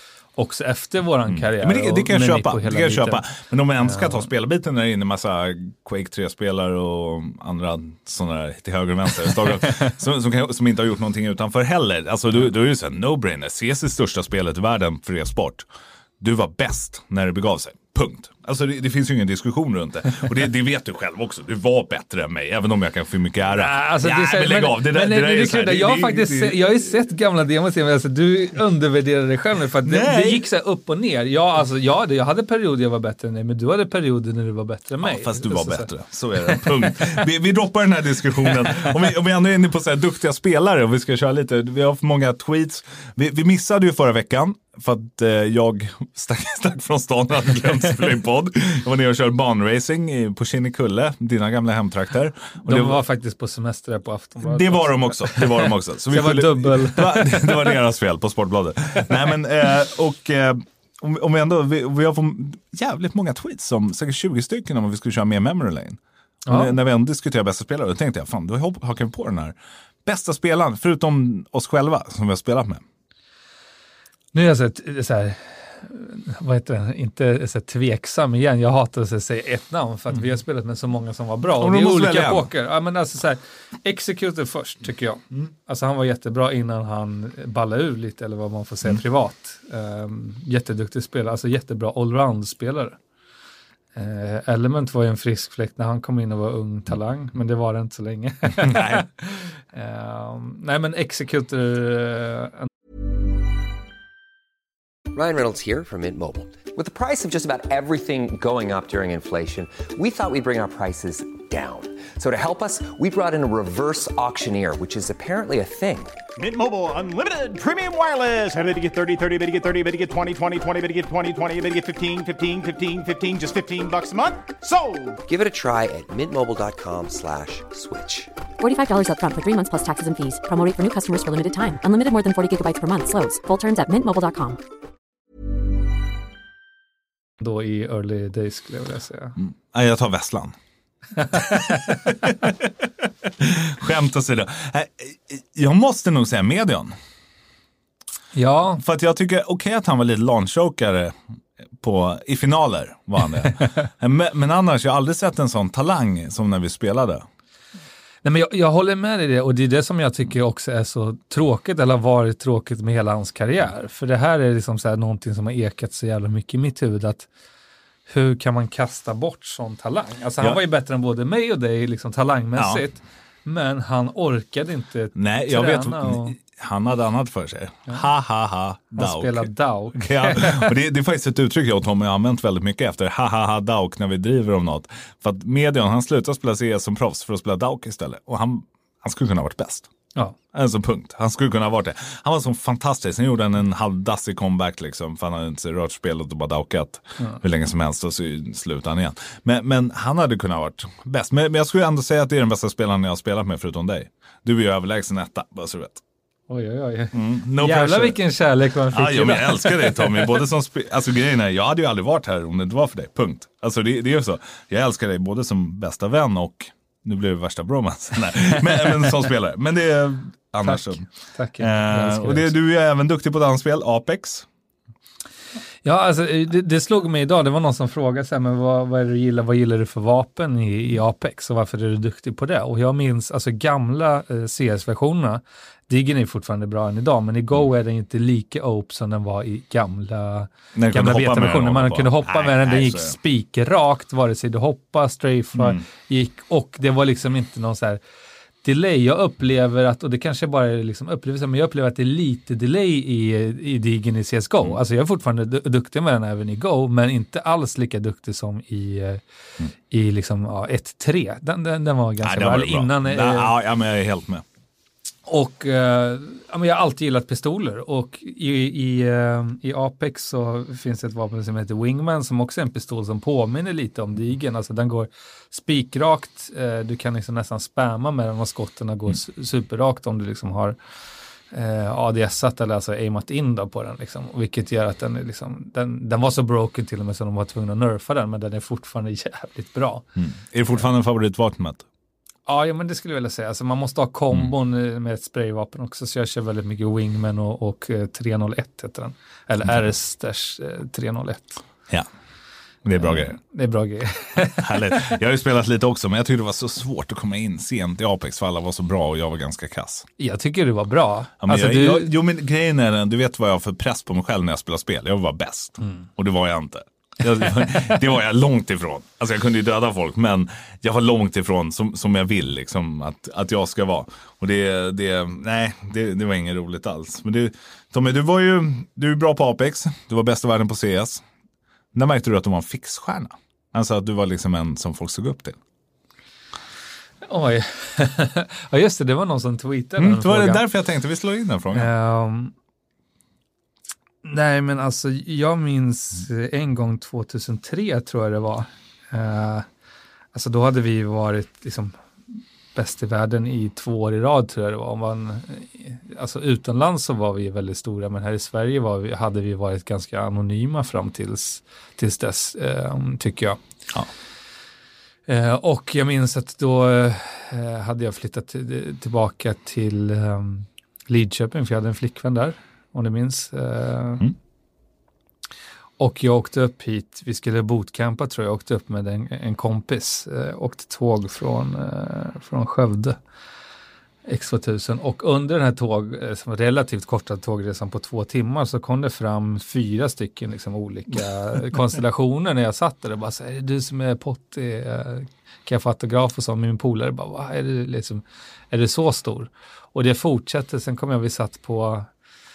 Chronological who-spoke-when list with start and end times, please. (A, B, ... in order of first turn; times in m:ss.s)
0:00.4-0:03.2 A
0:01.3-0:15.7 B
0:03.9-0:04.2 A
0:16.2-0:26.7 B
0:23.5-0:35.9 A
0:29.8-0:30.4 B
0:35.0-0:53.0 B
0:52.6-0:57.7 A
0:54.4-1:12.8 B
1:06.5-1:06.8 A
1:14.3-1:33.0 A
1:21.6-1:22.5 B
1:34.0-1:42.7 A
1:38.6-1:39.1 B
1:45.1-1:56.2 C
1:56.4-2:05.2 D
2:05.3-2:08.3 C
2:08.6-2:14.6 E
2:17.4-2:19.4 A
2:19.4-2:20.6 B
2:21.2-2:22.2 A
2:21.5-2:27.0 B
2:28.3-2:28.8 A
2:28.8-2:31.2 B
2:31.8-2:37.2 B
2:38.2-2:47.3 A
2:48.1-2:56.4 A
2:52.6-2:52.8 B
2:55.2-3:09.9 B
2:59.0-3:00.7 A
3:10.5-3:26.0 B
3:26.5-3:30.4 A
3:27.1-3:28.2 B
3:28.9-3:41.1 B
3:40.6-3:42.5 A
3:41.6-3:44.5 B
3:45.8-4:08.0 A
4:00.8-4:03.2 B
4:05.6-4:05.8 B
4:08.6-4:19.2 A
4:19.9-4:23.5 A
4:22.2-4:24.4 B
4:25.3-4:40.8 A
4:41.5-4:50.0 A
4:50.2-4:51.9 B
4:52.5-5:01.6 A
5:02.8-5:03.4 B
5:03.0-5:05.2 A
5:04.6-5:10.1 B
5:10.2-5:12.1 A
5:11.4-5:31.2 B
5:31.9-5:35.6 B
5:37.3-5:40.6 A
5:40.0-5:41.9 B
5:41.7-5:42.5 A
5:44.2-5:49.7 A
5:50.3-5:52.0 A
5:52.7-6:03.6 A
6:05.3-6:14.3 A
6:16.0-6:23.2 A
6:24.3-6:42.1 A